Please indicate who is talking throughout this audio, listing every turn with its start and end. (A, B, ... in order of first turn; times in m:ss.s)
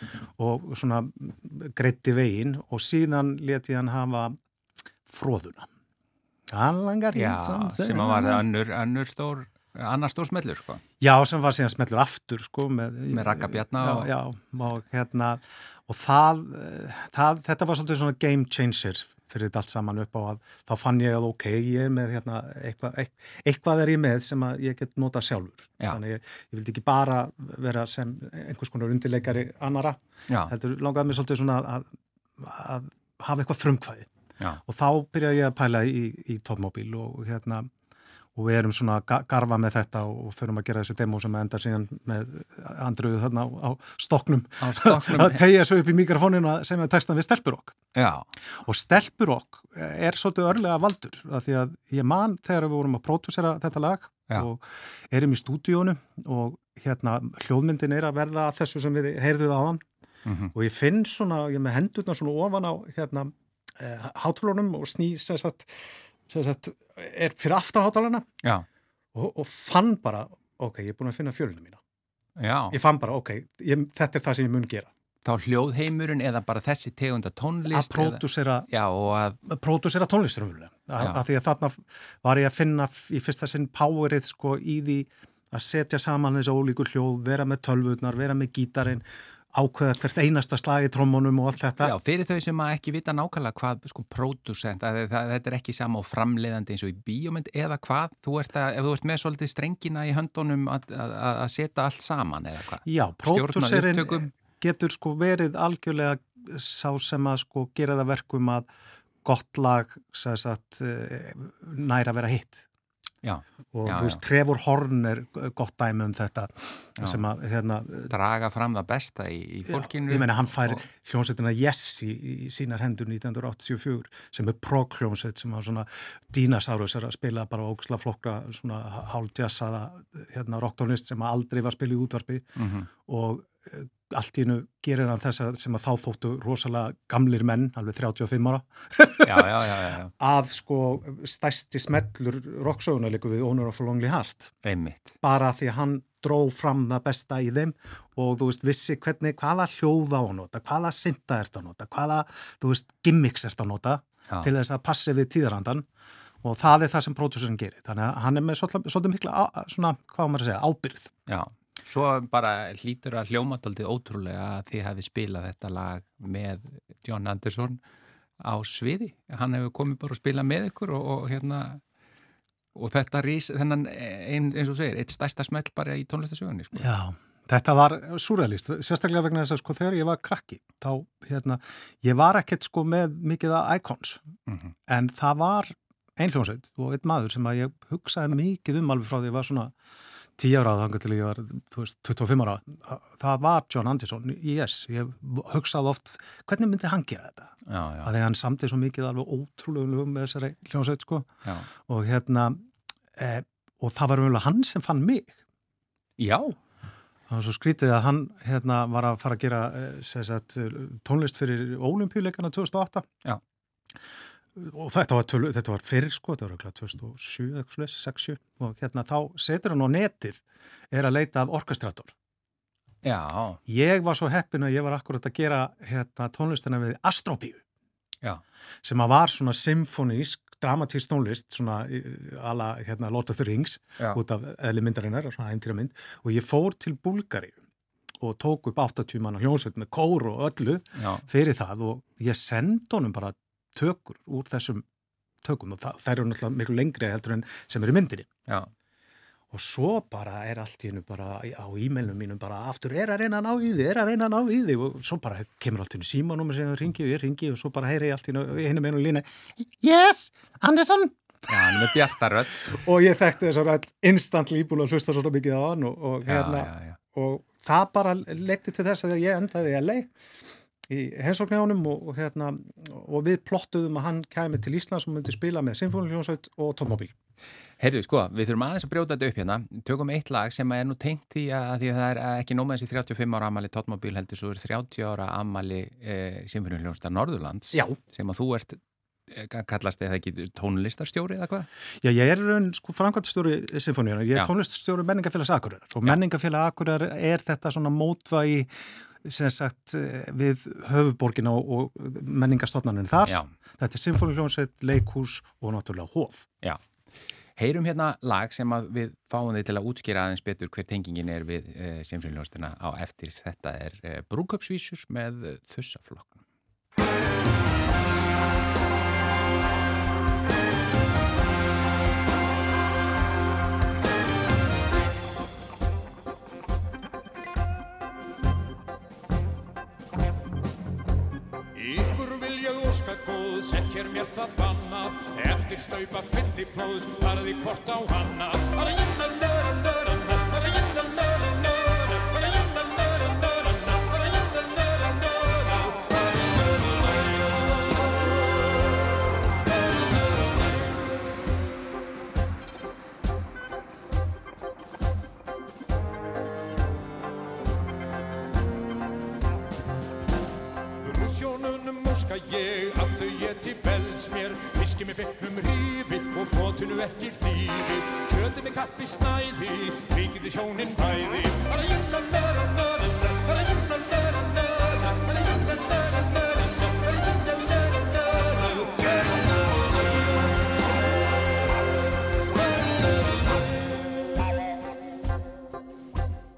0:00.4-0:04.4 A
0:05.0-0:05.7 A
0:06.5-0:08.4 A
0:07.1-0:10.8 B
0:11.0-0:34.1 A
0:13.1-0:14.1 B
0:34.6-0:37.7 A
0:38.3-0:47.8 A
0:44.6-0:45.4 B
0:47.9-0:48.3 B
0:48.6-0:59.8 A
1:00.2-1:00.5 B
1:00.5-1:08.3 A
1:09.1-1:11.8 A
1:12.4-1:12.8 B
1:12.7-1:14.9 A
1:15.2-1:19.4 B
1:17.7-1:18.7 A
1:19.4-1:31.9 A
1:31.8-1:44.3 B
1:42.8-1:48.7 A
1:49.2-1:52.6 A
1:53.2-1:54.2 B
1:53.7-1:58.1 A
1:58.1-2:00.8 B
1:59.7-2:12.5 A
2:12.6-2:12.9 B
2:13.0-2:19.5 A
2:19.2-2:20.1 B
2:20.2-2:24.5 A
2:24.6-2:25.1 B
2:25.2-2:35.9 A
2:36.4-2:41.1 A
2:41.3-2:47.8 B
2:48.4-2:51.8 B
2:52.7-2:56.8 B
2:56.8-3:04.2 A
3:04.5-3:04.7 B
3:04.9-3:09.7 A
3:10.4-3:21.3 A
3:17.7-3:18.1 B
3:21.8-3:22.6 A
3:23.2-3:25.4 A
3:26.2-3:26.6 B
3:27.3-3:33.1 A
3:34.6-3:42.1 A
3:43.0-3:43.6 B
3:43.7-3:47.6 A
3:48.8-3:57.6 A
3:58.2-4:04.8 A
4:01.0-4:01.2 B
4:05.4-4:08.3 A
4:09.5-4:22.0 A
4:21.5-4:22.7 B
4:22.6-4:30.1 A
4:26.2-4:27.0 B
4:30.9-4:37.1 A
4:37.8-4:51.7 B
4:52.0-4:58.7 A
4:59.2-5:06.5 A
5:03.2-5:03.5 B
5:07.6-5:16.4 B
5:31.7-5:47.6 C
6:01.0-6:19.5 C